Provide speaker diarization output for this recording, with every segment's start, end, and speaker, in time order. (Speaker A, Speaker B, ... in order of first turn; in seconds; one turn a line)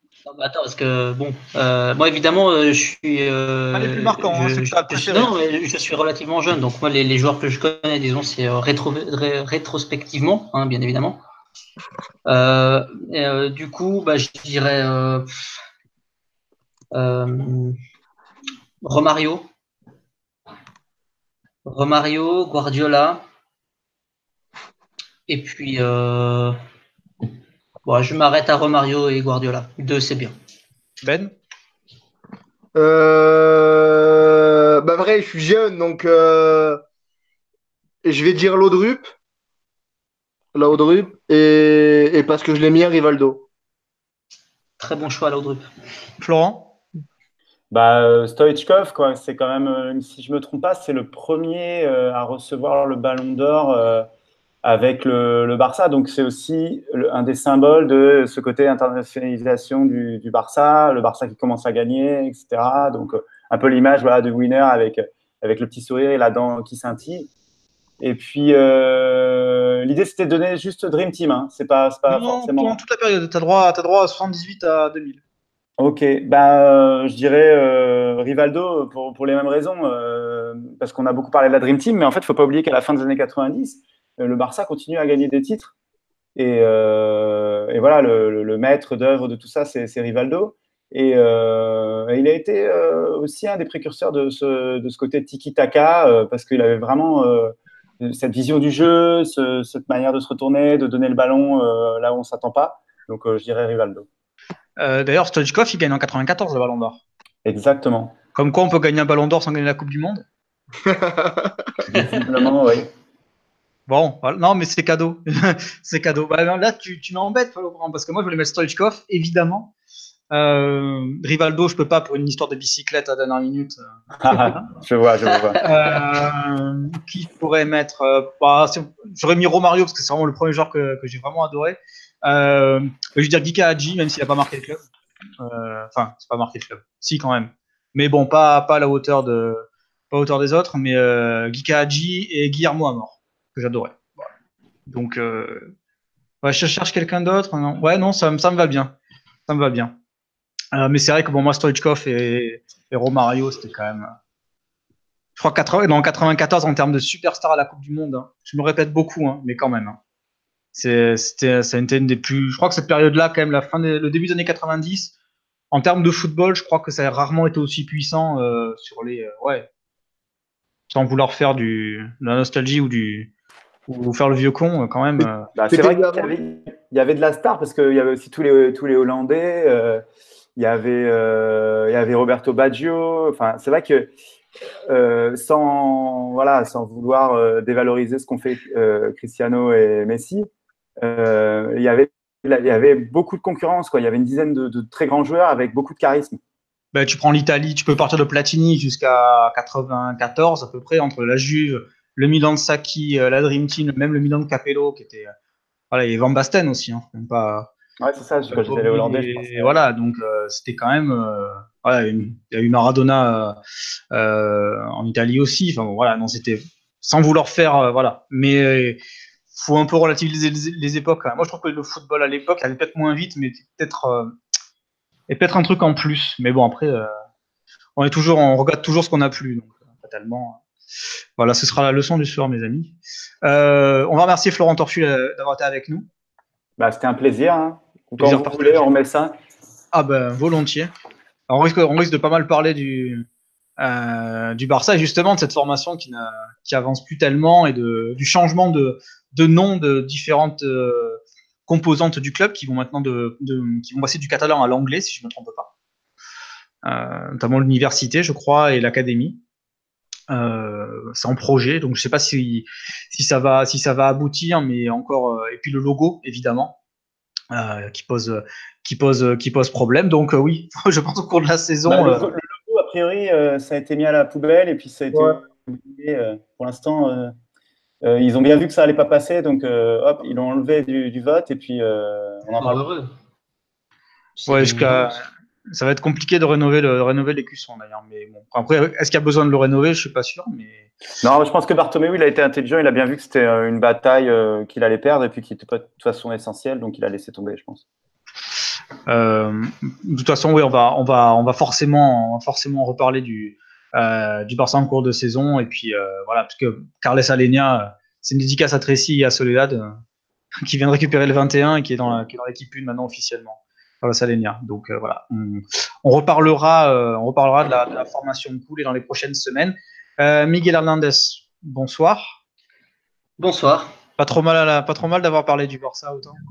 Speaker A: 0.2-11.2
Speaker B: 3.7-5.3
Speaker A: 12.3-15.5
Speaker A: 16.9-17.8
Speaker A: 18.8-19.5
Speaker A: 21.7-23.2
Speaker A: 25.3-26.6
Speaker A: 27.9-30.4
Speaker B: 31.0-31.3
Speaker C: 32.8-36.8
Speaker C: 38.0-39.1
Speaker C: 40.5-43.5
Speaker A: 44.8-45.7
Speaker B: 46.2-46.7
Speaker D: 47.7-54.1
Speaker D: 54.6-67.3
Speaker D: 68.0-72.8
Speaker B: 72.1-75.2
Speaker D: 75.8-85.7
Speaker D: 86.3-104.1
Speaker B: 104.8-107.0
Speaker D: 107.5-108.2
Speaker B: 108.3-110.2
Speaker C: 110.8-111.7
Speaker D: 111.9-112.9
Speaker B: 113.9-119.7
Speaker B: 120.3-124.6
Speaker D: 124.2-125.6
Speaker B: 125.6-134.8
Speaker B: 135.4-144.3
Speaker B: 144.9-145.7
Speaker B: 146.4-148.9
Speaker B: 149.5-149.9
Speaker B: 150.7-154.1
Speaker B: 155.4-160.0
Speaker B: 160.7-165.1
Speaker B: 165.7-169.7
Speaker B: 170.9-173.3
Speaker B: 173.9-175.5
Speaker D: 175.5-180.0
Speaker C: 175.7-176.3
Speaker D: 180.6-184.1
Speaker D: 184.9-190.5
Speaker D: 191.0-196.4
Speaker B: 196.9-205.3
Speaker B: 205.9-207.7
Speaker D: 208.0-209.8
Speaker B: 208.5-213.6
Speaker B: 214.1-219.0
Speaker B: 219.5-224.3
Speaker B: 225.3-227.1
Speaker B: 228.0-230.6
Speaker B: 231.4-236.1
Speaker D: 236.8-239.3
Speaker B: 238.2-238.9
Speaker B: 239.9-240.9
Speaker B: 241.5-243.3
Speaker B: 243.8-255.7
Speaker B: 256.8-259.4
Speaker B: 260.3-266.8
Speaker B: 267.5-272.3
Speaker D: 271.9-277.3
Speaker D: 278.0-282.8
Speaker A: 282.6-283.1
Speaker A: 284.4-285.2
Speaker B: 284.5-290.9
Speaker D: 291.2-297.8
Speaker B: 299.1-310.0
Speaker B: 310.6-322.4
Speaker A: 323.4-323.9
Speaker B: 324.2-326.4